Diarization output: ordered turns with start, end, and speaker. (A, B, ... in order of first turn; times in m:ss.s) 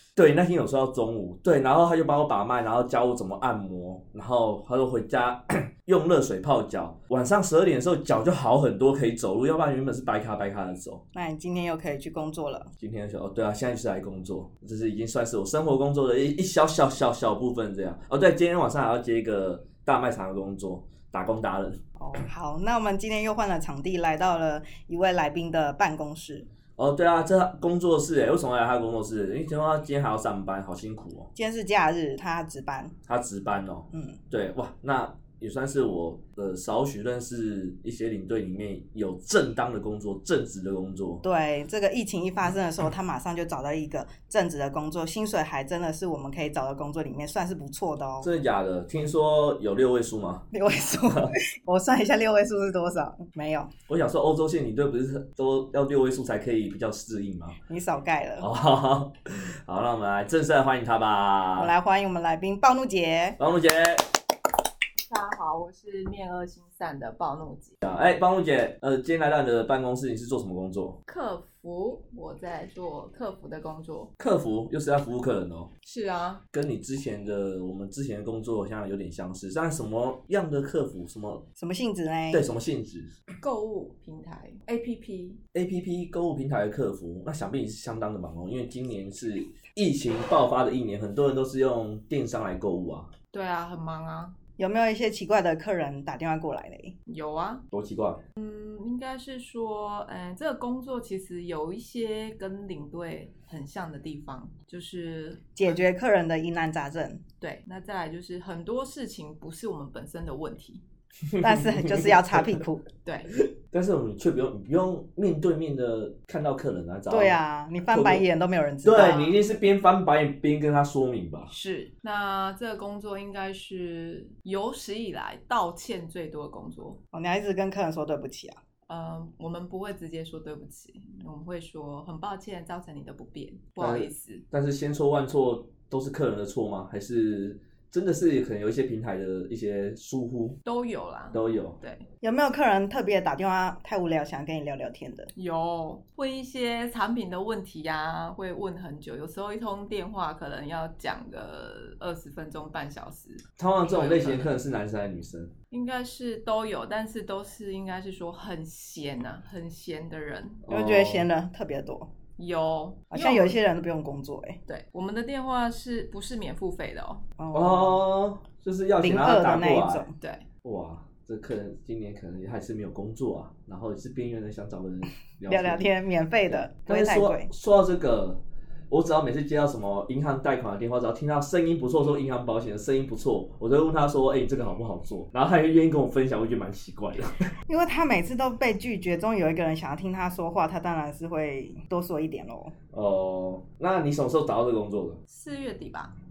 0:00.2-0:11.0 A
0:11.1-0:12.7 B
0:12.8-0:21.8 A
0:22.0-0:26.5 B
0:26.8-0:31.3 A
0:31.4-0:32.9 B
0:33.1-0:41.2 A
0:33.9-0:34.2 B
0:41.2-0:48.3 B
0:48.2-0:50.5 A
0:50.5-0:53.7 B
0:51.0-0:51.4 A
0:53.9-0:57.6 A
0:57.7-0:58.5 B
0:58.4-1:01.7 A
1:01.6-1:03.4 B
1:03.4-1:04.1 A
1:05.1-1:07.8 C
1:07.8-1:11.0 A
1:11.1-1:14.1 C
1:14.2-1:15.7 A
1:15.8-1:16.4 C
1:16.5-1:21.5 A
1:21.6-1:22.5 B
1:22.3-1:23.1 A
1:23.4-1:25.4 C
1:25.5-1:33.1 A
1:33.3-1:34.4 C
1:34.6-1:36.9 B
1:37.1-1:37.7 C
1:37.7-1:38.2 A
1:38.4-1:45.6 C
1:45.6-1:47.2 B
1:47.4-1:50.8 C
1:51.3-1:52.6 A
1:51.4-1:52.8 B
1:53.0-1:53.3 C
1:53.7-1:58.2 A
1:57.1-1:59.4 B
1:58.8-2:01.5 A
2:01.5-2:07.0 C
2:07.1-2:08.6 B
2:08.9-2:14.4 C
2:13.8-2:20.6 A
2:20.6-2:22.0 C
2:21.3-2:21.8 A
2:22.2-2:25.3 B
2:25.4-2:34.6 C
2:33.6-2:35.5 A
2:35.7-2:40.6 C
2:40.6-2:41.3 A
2:40.7-2:42.1 B
2:42.4-2:43.6 C
2:43.1-2:44.6 B
2:44.7-2:47.2 C
2:47.4-2:48.0 B
2:47.5-2:50.1 A
2:49.0-2:50.1 B
2:50.2-2:50.4 C
2:50.6-2:55.8 A
2:55.5-2:57.5 B
2:56.5-3:07.5 A
3:07.7-3:12.7 B
3:12.9-3:15.2 A
3:15.3-3:16.1 C